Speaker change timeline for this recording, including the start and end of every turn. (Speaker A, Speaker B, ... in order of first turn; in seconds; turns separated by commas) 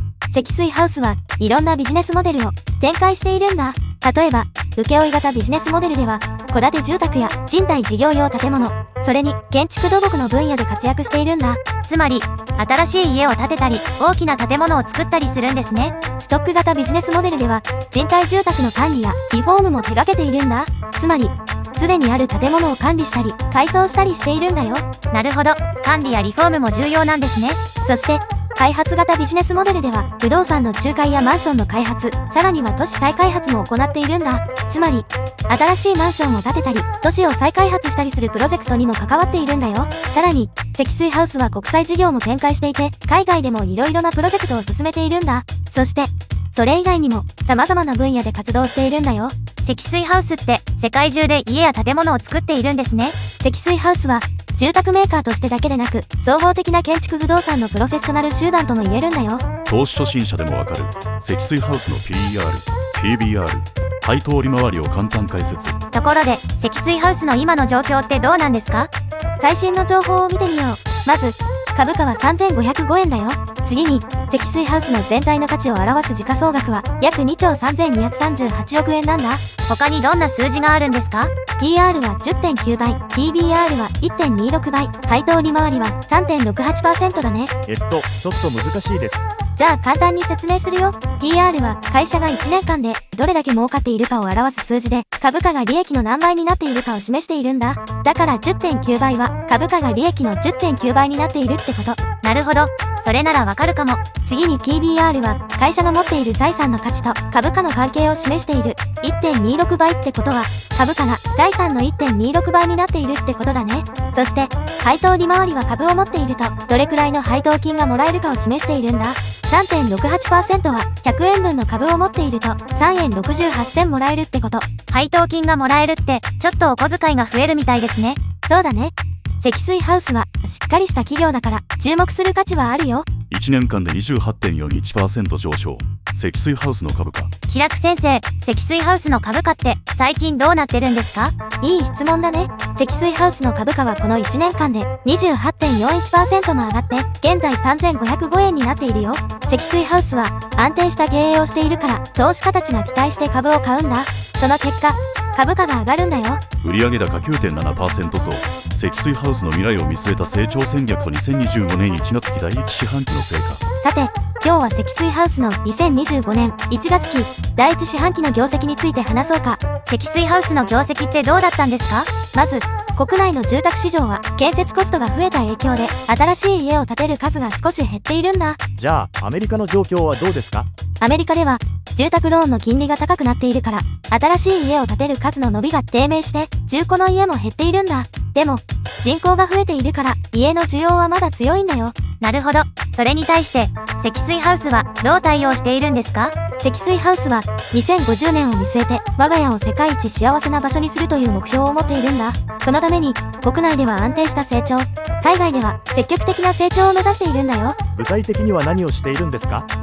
Speaker A: 0.3-11.6, Speaker B: 11.8-15.9, Speaker A: 16.2-24.9, Speaker B: 25.1-27.6, Speaker A: 27.8-49.3, Speaker B: 49.6-53.1, Speaker A: 53.4-59.4, Speaker C: 59.7-65.8, Speaker B: 65.9-68.9, Speaker A: 69.4-79.4, Speaker B: 79.7-81.3, Speaker A: 81.6-87.5, Speaker D: 87.7-89.3, Speaker A: 89.6-102.0, Speaker B: 102.2-104.0, Speaker A: 104.3-124.7, Speaker B: 124.9-128.2, Speaker A: 128.5-133.1, Speaker C: 133.3-137.3, Speaker B: 137.5-141.3, Speaker A: 141.6-156.4, Speaker C: 156.6-163.6, Speaker A: 163.8-169.6, Speaker B: 169.8-172.1, Speaker A: 172.3-178.6, Speaker D: 178.8-180.7, Speaker A: 181.0-191.9, Speaker B: 192.2-196.3, Speaker A: 196.6-207.8, Speaker D: 207.9-209.7